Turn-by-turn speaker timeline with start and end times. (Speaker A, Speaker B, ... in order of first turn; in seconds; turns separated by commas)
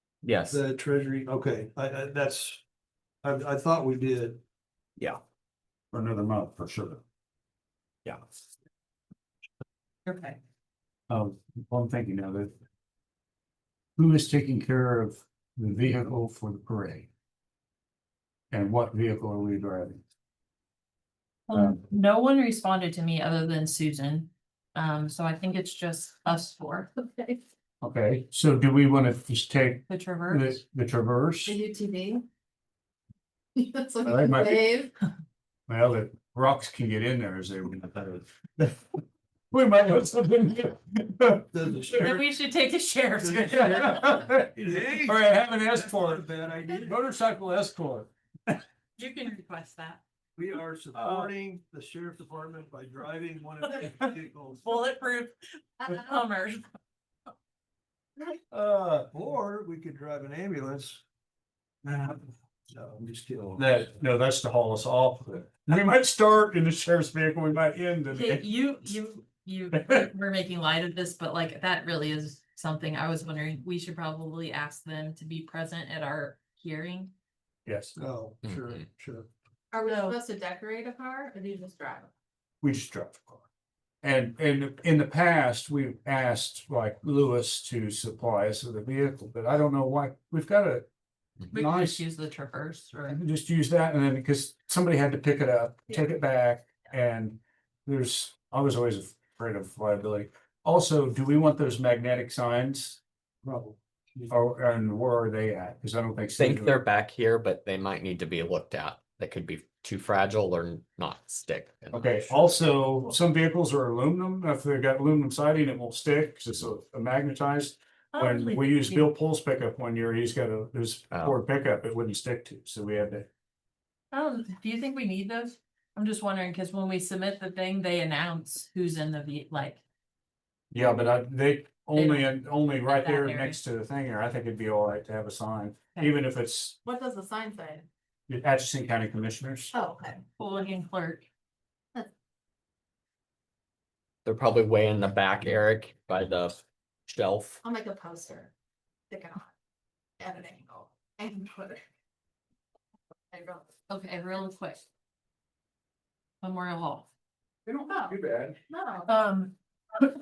Speaker A: 0.2-0.6, Speaker B: 0.5-2.6, Speaker B: 3.2-4.4, Speaker C: 5.9-7.0, Speaker D: 10.1-10.4, Speaker C: 11.1-12.5, Speaker C: 14.0-17.1, Speaker C: 18.5-20.0, Speaker D: 21.5-26.9, Speaker C: 21.5-21.8, Speaker E: 27.0-27.4, Speaker C: 27.8-31.6, Speaker D: 29.9-30.6, Speaker E: 31.5-32.2, Speaker E: 33.6-34.9, Speaker C: 34.0-34.7, Speaker C: 35.7-39.0, Speaker C: 39.5-41.5, Speaker B: 41.5-42.2, Speaker D: 41.9-44.2, Speaker C: 43.5-46.2, Speaker B: 44.6-47.0, Speaker C: 46.8-48.6, Speaker D: 49.0-50.0, Speaker B: 50.4-54.8, Speaker C: 51.0-51.3, Speaker D: 54.6-56.6, Speaker C: 58.5-59.0, Speaker B: 58.9-61.0, Speaker C: 61.8-62.2, Speaker B: 62.7-63.7, Speaker C: 63.4-68.5, Speaker D: 68.1-77.1, Speaker C: 69.7-70.1, Speaker C: 77.7-78.0, Speaker B: 78.0-79.3, Speaker E: 79.7-82.1, Speaker D: 79.8-80.2, Speaker C: 82.6-83.4, Speaker C: 84.0-90.9, Speaker C: 91.5-92.0, Speaker D: 91.5-93.2, Speaker C: 93.1-103.0, Speaker B: 103.4-104.3, Speaker C: 104.3-106.8, Speaker A: 106.4-112.5, Speaker C: 111.9-123.3, Speaker D: 118.1-119.1, Speaker A: 121.1-121.4, Speaker D: 124.1-129.8, Speaker C: 130.7-136.8, Speaker D: 131.9-133.6, Speaker E: 136.8-137.9, Speaker C: 138.3-139.7, Speaker E: 139.7-140.2, Speaker D: 140.4-141.3, Speaker A: 144.2-147.6, Speaker E: 147.6-148.5, Speaker E: 149.1-149.5, Speaker E: 150.2-151.8, Speaker E: 153.3-153.7, Speaker D: 153.9-154.8, Speaker D: 156.4-157.1, Speaker C: 157.7-158.6, Speaker E: 158.7-159.1, Speaker D: 159.1-160.1